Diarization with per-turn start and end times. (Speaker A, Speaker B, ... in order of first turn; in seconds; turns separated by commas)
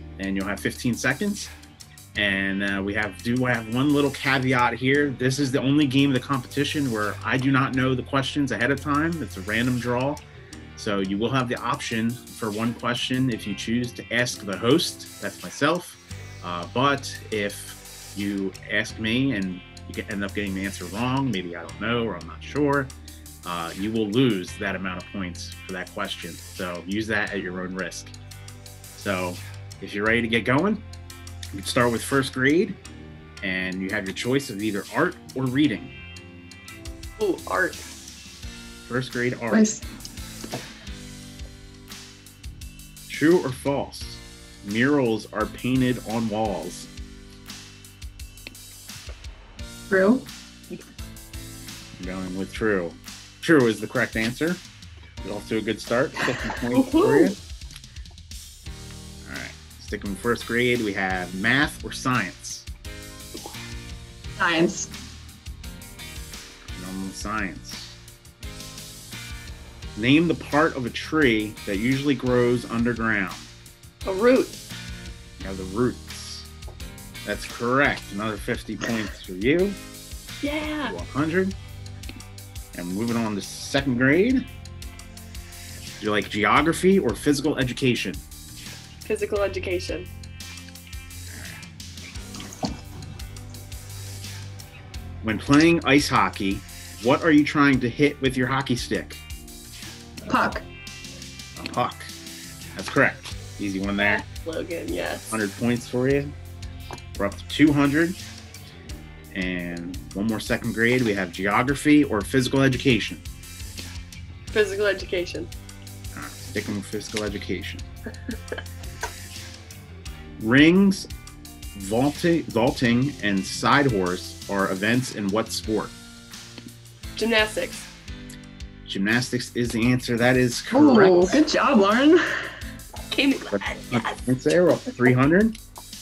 Speaker A: 0.2-1.5, Speaker A: 2.2-10.2, Speaker A: 10.8-28.2, Speaker A: 29.0-30.8, Speaker A: 31.6-32.8, Speaker A: 33.4-35.9, Speaker B: 37.2-37.8, Speaker A: 38.8-39.8, Speaker C: 39.5-39.8, Speaker A: 43.1-46.9, Speaker C: 49.9-50.3, Speaker A: 52.0-54.6, Speaker A: 55.2-57.4, Speaker B: 56.7-57.4, Speaker A: 59.2-62.7, Speaker C: 64.4-64.9, Speaker A: 66.7-68.0, Speaker A: 70.0-73.5, Speaker B: 74.1-74.5, Speaker A: 75.4-76.5, Speaker A: 77.2-79.8, Speaker B: 80.4-81.0, Speaker A: 80.8-81.5, Speaker A: 82.7-84.5, Speaker A: 86.0-88.2, Speaker B: 89.0-90.1, Speaker A: 95.2-99.2, Speaker C: 100.3-100.7, Speaker A: 101.6-102.1, Speaker A: 102.8-104.2, Speaker B: 104.0-105.2, Speaker A: 105.3-106.3, Speaker A: 107.2-108.2, Speaker A: 109.3-113.2, Speaker B: 114.5-115.5, Speaker A: 116.2-117.9, Speaker A: 120.4-121.1, Speaker A: 121.8-126.0, Speaker B: 127.2-127.9, Speaker A: 128.8-131.4, Speaker C: 130.7-132.2, Speaker B: 133.1-134.2, Speaker A: 133.5-135.6